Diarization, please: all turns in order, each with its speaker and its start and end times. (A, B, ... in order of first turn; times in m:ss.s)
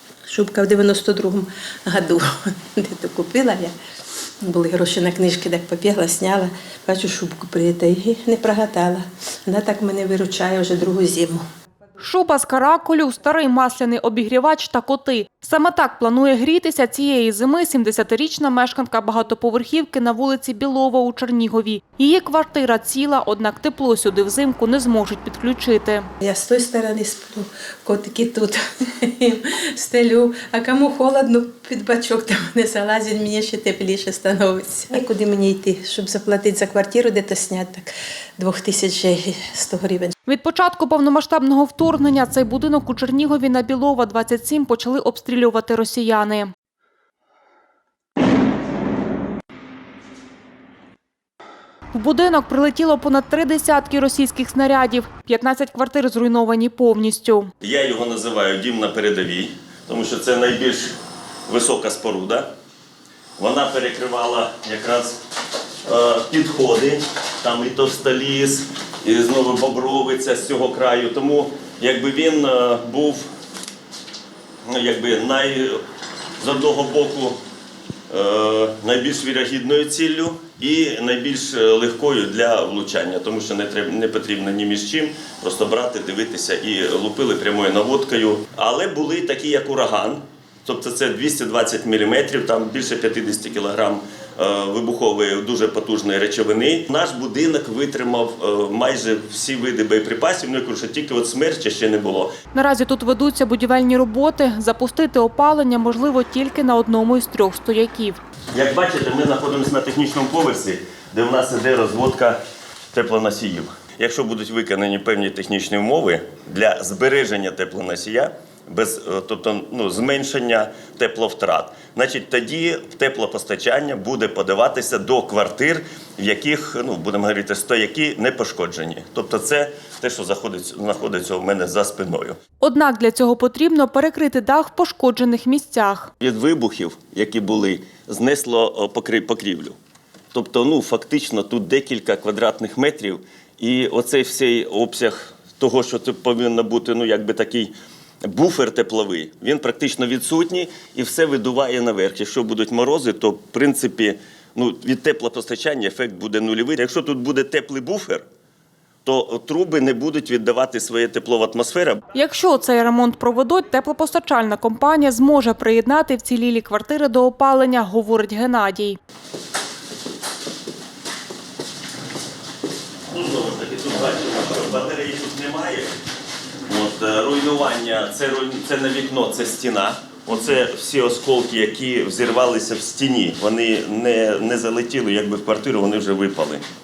0:00.3-0:03.7 A
0:04.4-0:11.4 A
0:12.0-0:26.1 B
0:26.2-0:40.1 A
0:40.3-0:46.5 B
0:51.9-0:57.5 B
0:57.6-1:01.0 C
1:01.5-1:02.5 C
1:03.4-1:05.2 C
1:05.8-1:13.3 C
1:14.7-1:15.8 C
1:16.4-1:17.4 C
1:18.1-1:42.4 C
1:42.5-1:48.2 B
1:48.5-1:52.4 C
1:52.9-2:12.4 C
2:12.6-2:16.1 B
2:16.2-2:19.8 C
2:20.3-2:27.7 C
2:28.2-2:38.2 C
2:39.0-2:42.0 C
2:42.1-2:49.0 B
2:53.1-2:56.0 C
2:56.7-3:06.6 C